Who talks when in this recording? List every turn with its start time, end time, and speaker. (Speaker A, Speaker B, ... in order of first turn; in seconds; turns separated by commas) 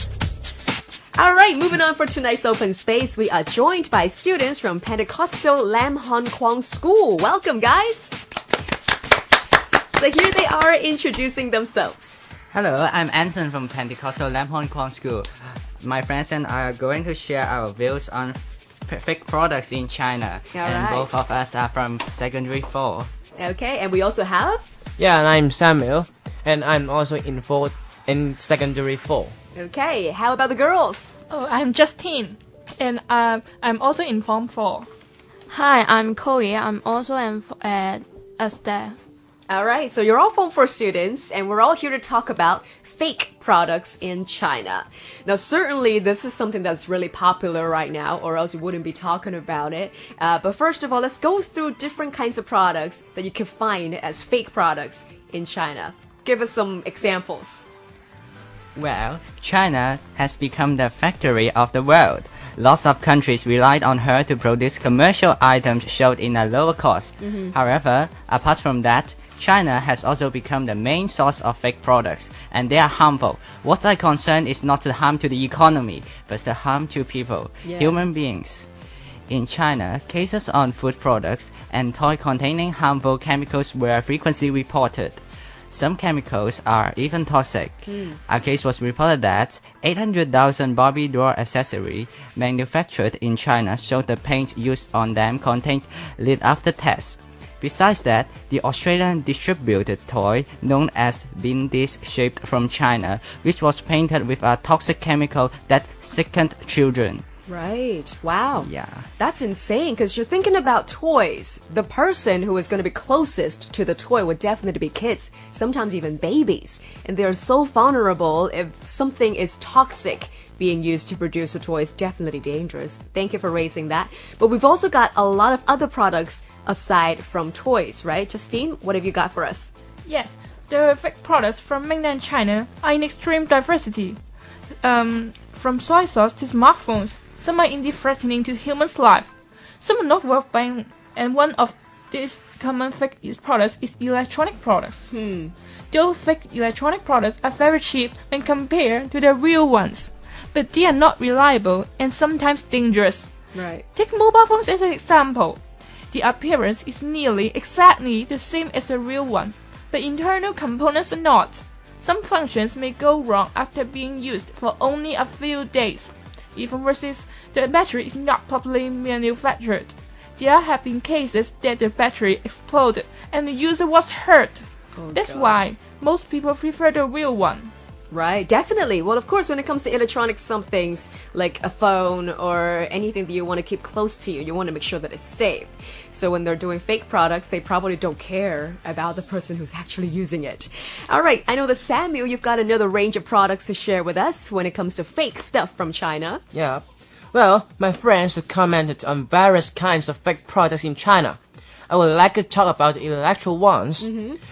Speaker A: 1.1-8.2, Speaker A: 9.9-12.2, Speaker B: 12.5-15.3, Speaker B: 15.8-23.1, Speaker A: 20.5-21.1, Speaker A: 23.4-24.7, Speaker C: 25.0-29.3, Speaker A: 29.5-31.1, Speaker D: 31.3-34.9, Speaker E: 35.5-39.0, Speaker A: 39.5-57.7, Speaker B: 58.8-78.7, Speaker A: 67.2-67.5, Speaker A: 77.6-77.9, Speaker B: 79.3-107.2, Speaker A: 87.8-88.2, Speaker A: 107.5-129.7, Speaker B: 108.6-109.0, Speaker D: 130.1-134.2, Speaker D: 134.8-145.1, Speaker A: 145.1-145.5, Speaker D: 145.9-153.3, Speaker A: 153.5-153.9, Speaker D: 153.9-155.6, Speaker D: 156.1-177.7, Speaker A: 174.9-175.5, Speaker A: 178.1-196.4, Speaker C: 196.5-201.4, Speaker C: 201.9-204.1, Speaker A: 204.0-204.4